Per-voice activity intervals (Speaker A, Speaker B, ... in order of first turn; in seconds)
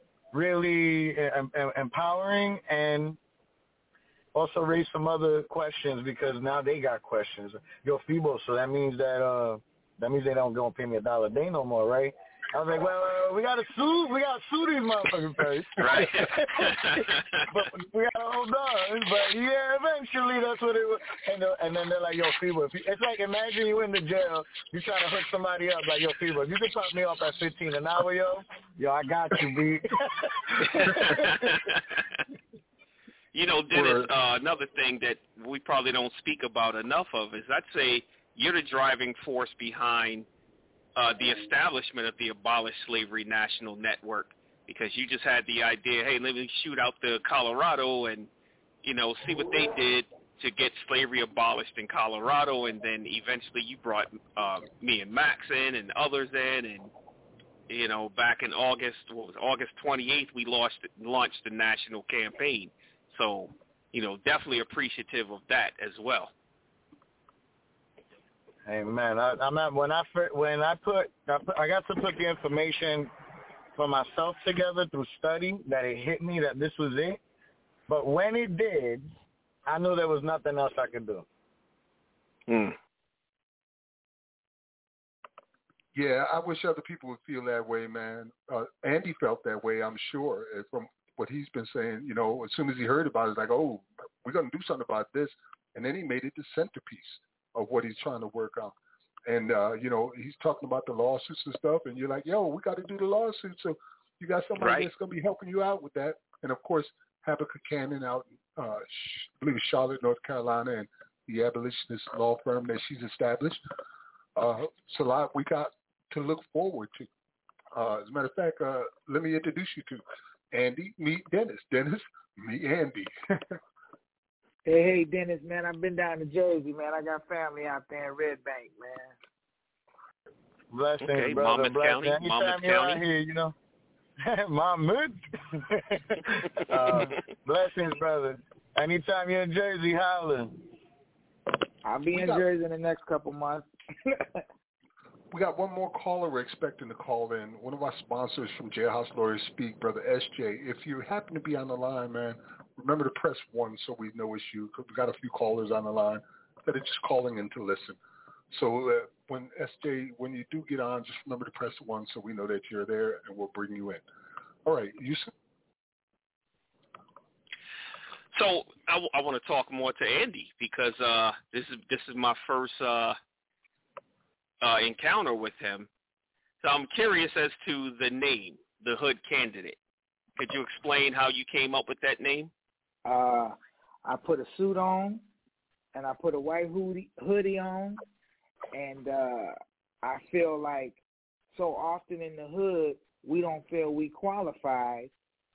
Speaker A: 0.3-3.2, 4.3-31.4, 68.7-73.1, 73.8-77.2, 77.9-79.1, 79.7-81.2, 130.7-133.5, 134.2-140.6
Speaker B: 15.8-17.4, 30.8-32.0, 33.3-40.3, 41.0-48.3, 48.8-56.9, 57.7-66.3, 82.5-82.8, 104.6-104.9, 131.0-133.0, 168.3-173.2, 174.6-175.9, 176.6-179.8, 180.4-182.5
Speaker C: 33.7-34.1, 85.9-98.7, 99.2-113.6, 114.3-117.1, 117.7-123.6, 145.3-158.0, 158.5-164.0, 164.6-165.3
Speaker D: 124.7-129.2, 141.8-144.4, 183.0-185.2, 185.9-188.0, 188.7-191.0, 191.5-195.1